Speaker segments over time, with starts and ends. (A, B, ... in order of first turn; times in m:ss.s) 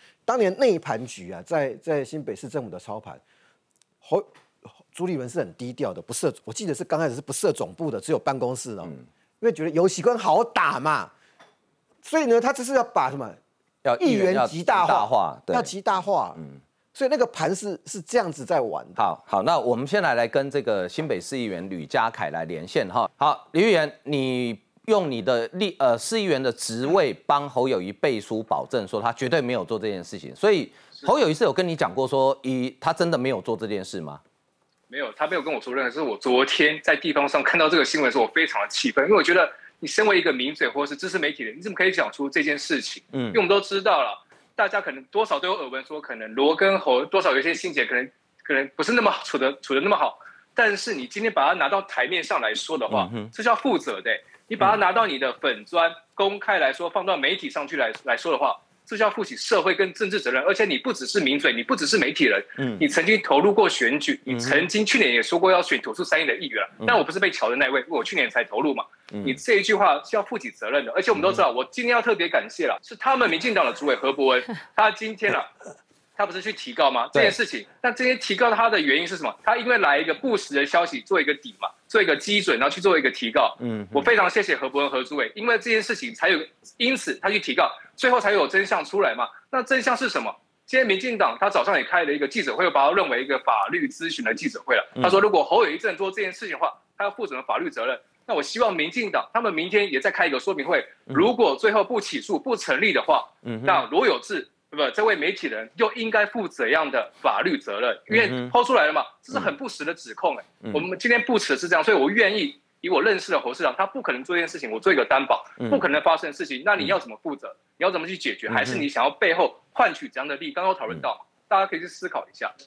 0:00.3-0:03.2 A
0:04.0-0:11.1 A
0:12.0-0:13.4 A
0:13.8-0:15.7 B
0:14.0-0:16.4 A
0:17.0-0:19.0 A
0:19.0-0:34.2 B
0:34.9-1:15.5 C
0:43.1-0:43.4 B
0:52.9-0:53.3 B
1:04.3-1:04.7 B
1:09.1-1:09.4 B
1:11.2-1:11.4 B
1:16.2-2:02.5 C
1:23.6-1:24.2 B
1:35.0-1:35.2 B
1:43.4-1:43.8 B
1:48.1-1:48.5 B
1:58.5-1:58.9 B